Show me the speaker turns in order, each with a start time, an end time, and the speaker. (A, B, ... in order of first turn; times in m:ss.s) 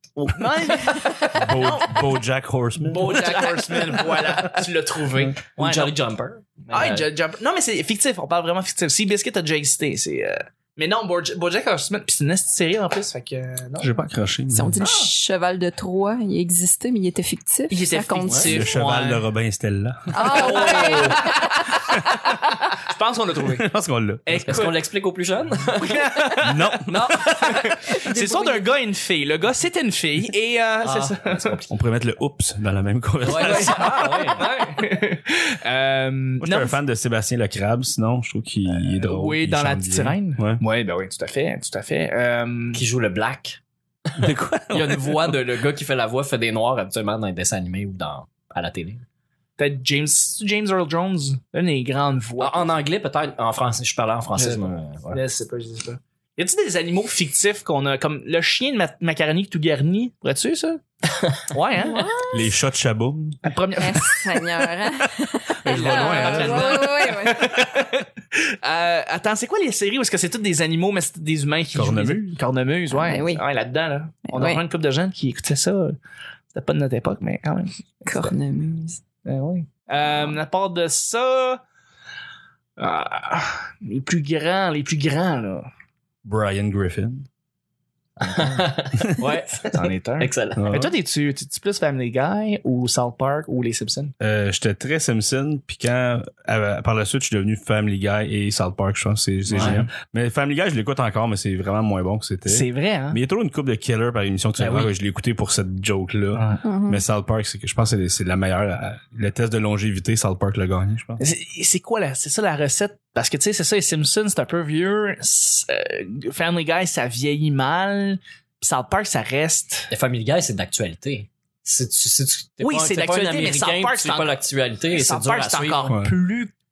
0:00.2-0:02.2 A
0:01.3-0:04.2 B
0:02.8-0:05.9 A
0:05.6-0:07.1 C
0:06.7-0:13.9 A
0:13.8-0:14.9 B
0:14.5-0:18.5 D
0:14.8-0:15.1 A
0:17.7-0:19.3 A
0:18.4-0:21.1 B
0:20.1-0:21.8 D
0:20.2-0:23.6 A
0:21.9-0:22.3 B
0:23.5-0:24.6 B
0:24.2-0:24.8 A
0:24.5-0:26.1 C
0:25.8-0:31.5 A
0:26.4-0:27.0 B
0:26.9-0:27.8 C
0:28.0-0:28.7 D
0:30.8-0:31.7 C
0:31.7-0:34.0 B
0:33.2-0:34.5 C
0:33.3-0:36.8 A
0:36.4-0:40.6 B
0:38.9-0:42.8 A
0:42.7-0:49.0 C
0:44.2-0:45.4 B
0:49.6-0:52.8 A
0:52.4-0:55.2 C
0:54.3-1:00.8 A
1:01.4-1:02.1 A
1:01.8-1:02.6 D
1:02.3-1:03.4 B
1:03.4-1:04.5 A
1:03.8-1:07.5 D
1:05.6-1:06.9 B
1:05.6-1:16.0 A
1:11.7-1:12.4 B
1:12.9-1:13.4 D
1:14.3-1:14.6 D
1:16.5-1:18.3 A
1:18.0-1:19.0 D
1:19.2-1:21.6 A
1:22.8-1:25.7 A
1:26.2-1:27.3 B
1:28.2-1:28.7 A
1:28.2-1:30.7 C
1:29.7-1:34.1 A
1:30.6-1:30.9 B
1:34.2-1:51.2 B
1:39.5-1:39.8 C
1:39.5-1:39.9 A
1:42.5-1:43.2 A
1:44.6-1:44.9 C
1:46.3-1:46.6 A
1:46.6-1:47.0 D
1:51.2-1:59.9 A
1:59.9-2:05.9 C
2:02.6-2:06.5 A
2:05.9-2:06.1 B